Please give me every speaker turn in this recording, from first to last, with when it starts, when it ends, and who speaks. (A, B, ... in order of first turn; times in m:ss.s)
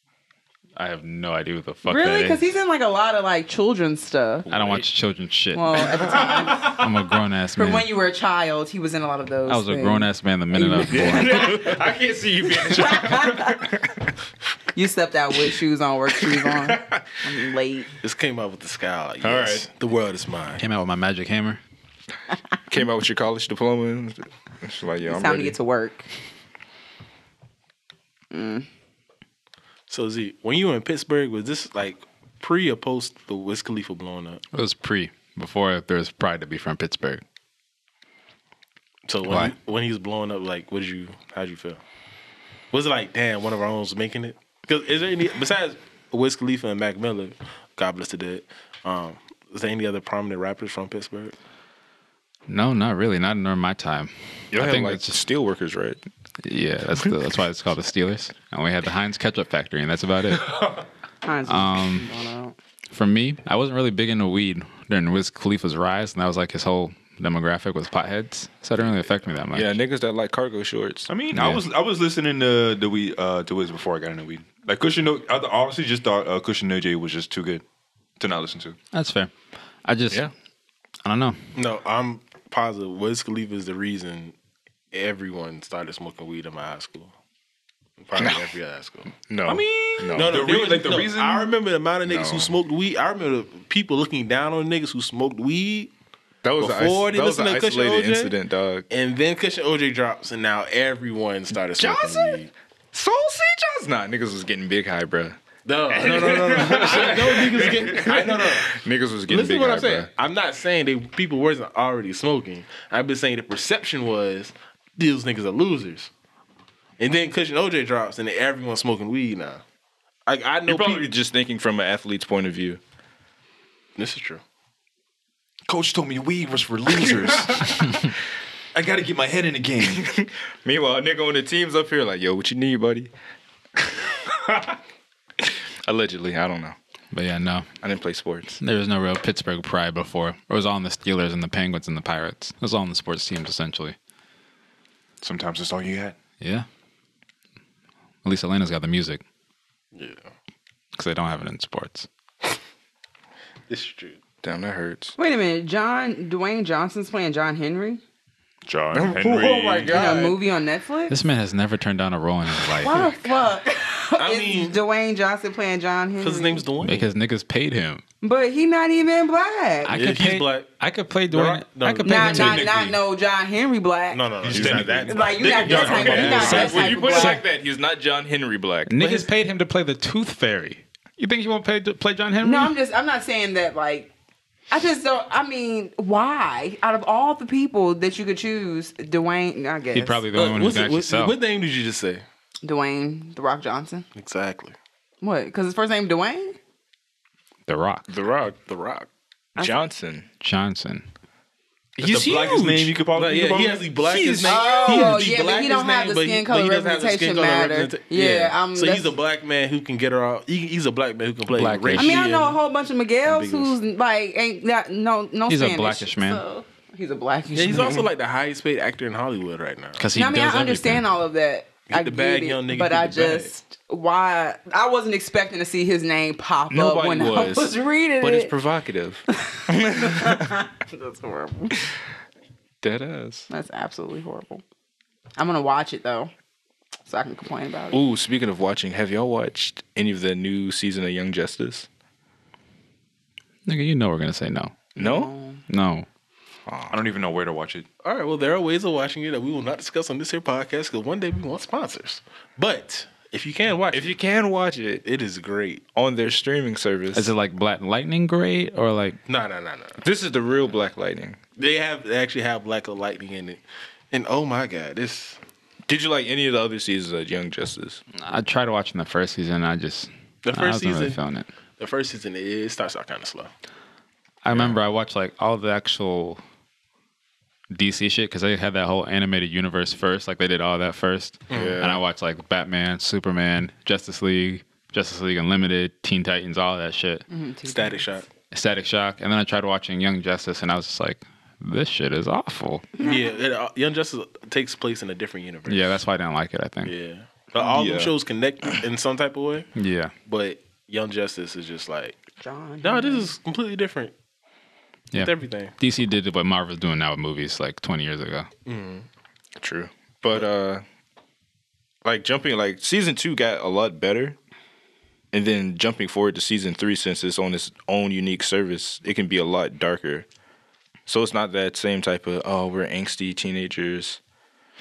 0:00.8-0:02.4 A
0:01.9-0:04.5 B
0:04.5-0:04.8 C
0:04.5-0:07.9 A
0:05.5-0:06.8 B
0:07.6-0:11.8 B
0:09.5-0:11.7 A
0:10.8-0:14.1 C
0:12.5-0:13.7 B
0:14.7-0:17.9 B
0:16.2-0:17.0 C
0:18.0-0:20.6 D
0:19.2-0:19.7 C
0:20.6-0:21.6 A
0:22.7-0:25.6 C
0:25.1-0:26.1 B
0:28.3-0:28.7 B
0:29.9-0:34.4 D
0:34.5-0:37.2 A
0:39.1-0:41.8 D
0:39.3-0:39.5 A
0:42.7-0:51.4 D
0:52.5-0:55.2 A
0:54.5-0:56.0 C
0:56.4-1:00.8 A
1:01.2-1:02.6 B
1:01.5-1:02.1 A
1:02.9-1:09.8 A
1:09.5-1:11.1 C
1:11.1-1:17.6 E
1:11.3-1:11.6 A
1:18.2-1:18.8 E
1:18.9-1:19.3 A
1:19.8-1:20.3 A
1:21.0-1:21.4 A
1:21.6-1:24.4 D
1:24.9-1:27.1 D
1:28.0-1:29.1 D
1:28.2-1:28.5 C
1:29.3-1:30.5 C
1:29.4-1:31.6 E
1:30.1-1:35.9 D
1:32.1-1:32.5 C
1:36.4-1:38.9 C
1:36.6-1:38.4 D
1:38.9-1:42.5 D
1:41.8-1:50.1 C
1:45.6-1:56.1 D
1:57.0-1:59.6 D
2:00.3-2:01.1 D
2:00.7-2:02.8 C
2:04.0-2:04.4 D
2:05.7-2:08.0 E
2:08.7-2:10.0 E
2:09.8-2:13.1 C
2:13.8-2:14.8 C
2:15.4-2:16.8 C
2:17.1-2:17.7 A
2:17.8-2:18.6 C
2:18.6-2:24.0 A
2:25.2-2:26.2 E
2:26.4-2:26.7 A
2:28.2-2:29.2 A
2:29.9-2:30.3 D
2:31.0-2:32.1 A
2:33.7-2:34.2 D
2:34.4-2:35.1 C
2:35.2-2:38.0 B
2:38.6-2:40.2 E
2:38.9-2:40.4 C
2:39.2-2:40.3 D
2:39.9-2:41.2 B
2:41.1-2:43.0 A
2:42.8-2:46.6 B
2:44.2-2:44.8 D
2:46.2-2:47.0 D
2:46.8-2:48.0 A
2:48.2-2:50.0 B
2:49.8-2:52.7 A
2:49.9-2:50.7 D
2:51.3-2:52.6 D
2:52.0-2:54.3 B
2:52.3-2:53.0 E
2:54.1-2:56.8 D
2:54.4-2:56.7 E
2:54.5-2:54.9 C
2:55.0-2:57.4 B
2:55.7-2:59.3 C
2:56.4-2:57.4 A
2:58.9-3:02.7 A
3:02.4-3:04.1 B
3:04.7-3:10.2 B
3:09.9-3:11.4 A
3:10.3-3:12.2 D
3:12.6-3:14.1 B
3:14.2-3:14.8 D
3:15.2-3:16.6 B
3:17.7-3:18.1 A
3:18.1-3:19.1 D
3:19.6-3:20.3 C
3:20.4-3:21.0 A
3:22.0-3:23.0 C
3:22.0-3:24.0 E
3:23.1-3:32.6 D
3:24.0-3:25.2 C
3:24.4-3:29.1 B
3:31.5-3:32.3 A
3:32.0-3:38.1 B
3:33.2-3:33.8 D
3:35.5-3:36.4 A
3:37.5-3:40.1 D
3:40.0-3:41.0 A
3:40.1-3:48.5 B
3:41.9-3:43.5 D
3:46.7-3:50.6 C
3:49.3-3:51.8 B
3:52.8-3:53.5 C
3:53.5-3:54.6 B
3:55.4-3:56.3 B
3:57.1-3:58.0 B
3:57.9-4:01.9 C
4:03.7-4:05.0 A
4:05.0-4:05.3 C
4:05.0-4:05.6 B
4:05.7-4:06.1 A
4:06.7-4:07.0 C
4:06.9-4:07.9 E
4:08.0-4:14.1 D
4:13.9-4:15.0 C
4:15.0-4:15.8 D
4:16.0-4:17.3 C
4:17.1-4:19.2 A
4:19.3-4:20.0 D
4:20.0-4:21.4 C
4:21.6-4:25.4 D
4:25.9-4:28.0 C
4:28.2-4:31.5 A
4:30.4-4:31.2 D
4:31.8-4:33.5 D
4:34.4-4:36.4 A
4:37.7-4:47.2 A
4:41.5-4:41.8 D
4:41.5-4:42.0 C
4:47.3-4:48.1 B
4:47.7-4:48.3 D
4:48.5-4:52.9 A
4:53.0-4:53.3 B
4:53.0-4:56.0 D
4:55.7-4:56.9 A
4:56.8-4:59.7 D
4:57.6-4:58.1 C
4:59.8-5:00.1 A
5:00.3-5:02.2 D
5:02.4-5:03.3 B
5:02.8-5:04.1 D
5:05.1-5:08.5 A
5:05.2-5:05.7 D
5:08.7-5:09.1 D
5:09.6-5:10.8 C
5:12.0-5:14.4 C
5:15.3-5:20.3 C
5:21.1-5:24.2 C